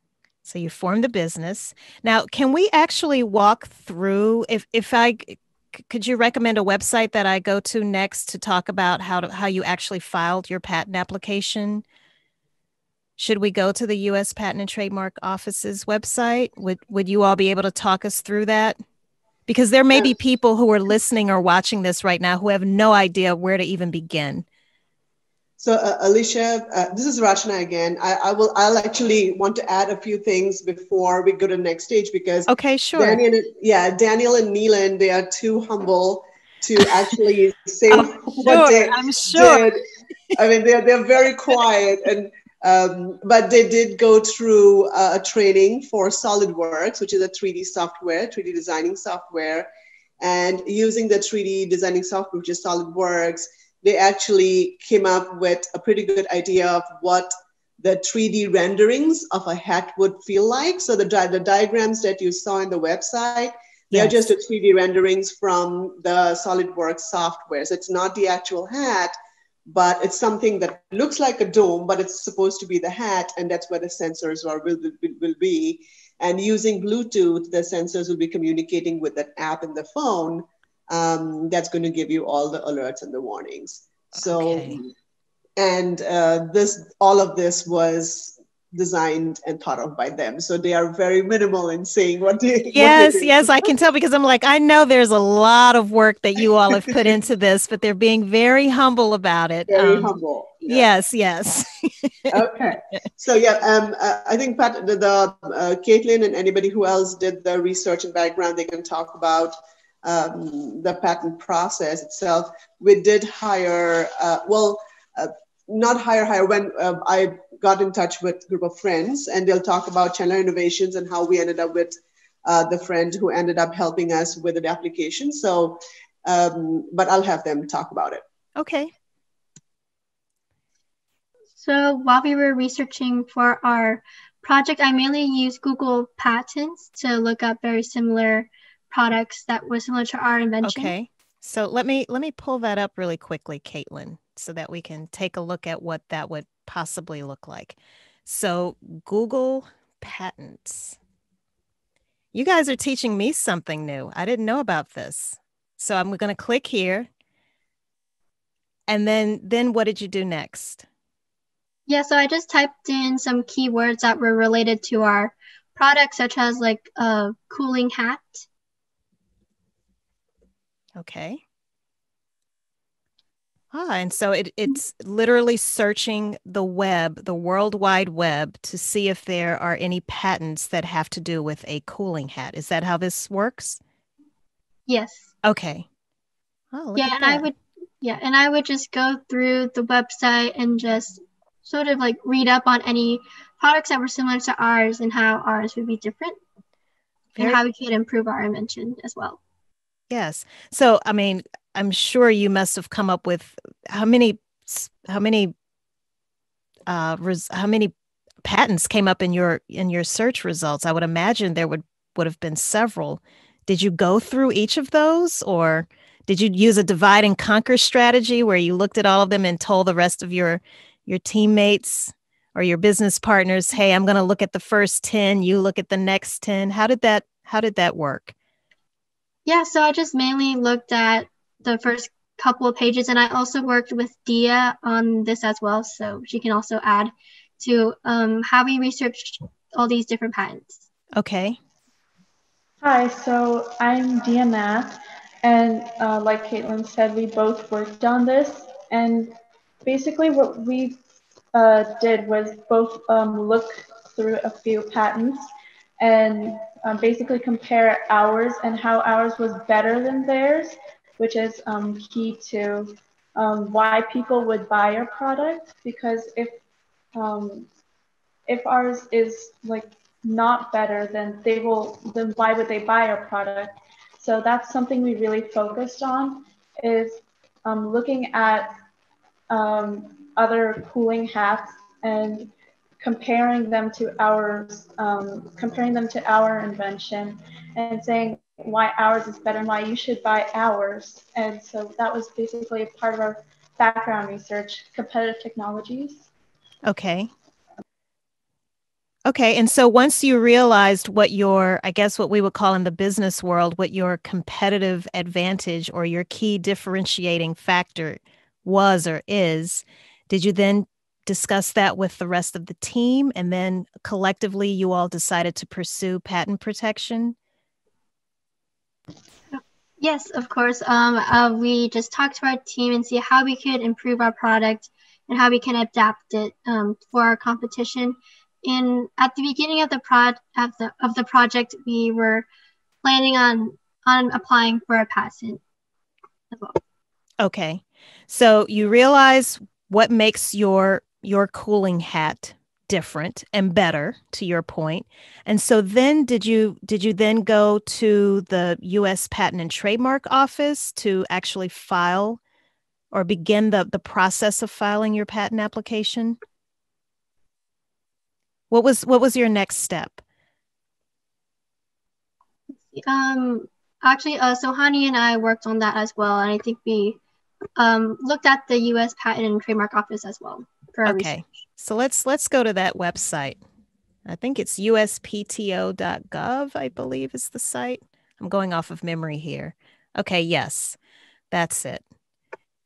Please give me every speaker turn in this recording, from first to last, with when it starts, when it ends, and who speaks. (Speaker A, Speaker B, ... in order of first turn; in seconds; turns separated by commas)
Speaker A: 0.5-11.8, Speaker A: 13.2-18.8, Speaker A: 19.5-24.4, Speaker B: 25.6-39.8, Speaker A: 32.5-33.2, Speaker A: 37.9-39.7, Speaker B: 40.3-49.7, Speaker B: 50.2-57.3, Speaker B: 57.8-69.2, Speaker A: 63.9-64.3, Speaker B: 69.7-84.9, Speaker A: 84.2-84.8, Speaker B: 85.6-93.7, Speaker A: 92.7-100.1, Speaker B: 99.7-100.9, Speaker A: 100.7-102.4, Speaker B: 102.3-128.2, Speaker A: 128.6-128.9, Speaker C: 131.5-140.9, Speaker A: 140.6-151.0, Speaker A: 152.3-157.1, Speaker A: 158.9-160.8, Speaker C: 161.9-168.4, Speaker A: 171.0-171.4, Speaker A: 173.7-183.8, Speaker C: 184.9-185.3, Speaker A: 185.4-185.9, Speaker A: 186.7-187.5, Speaker C: 187.0-196.4, Speaker C: 197.4-199.4, Speaker A: 200.1-205.5, Speaker A: 206.9-207.9, Speaker A: 208.4-228.3, Speaker C: 229.5-240.9, Speaker A: 241.2-241.6, Speaker D: 242.8-249.3, Speaker D: 249.8-251.0, Speaker D: 251.5-255.4, Speaker D: 256.0-266.6, Speaker D: 267.1-267.7, Speaker D: 268.5-278.7, Speaker D: 279.5-296.3, Speaker A: 296.9-297.3, Speaker A: 299.3-317.4, Speaker C: 319.5-332.5, Speaker C: 333.0-335.6, Speaker C: 336.5-336.8, Speaker A: 337.4-352.4, Speaker A: 353.1-356.4, Speaker A: 358.7-360.2, Speaker C: 362.8-367.2, Speaker C: 367.8-371.4, Speaker A: 371.1-373.6, Speaker A: 374.3-381.0, Speaker A: 381.5-382.0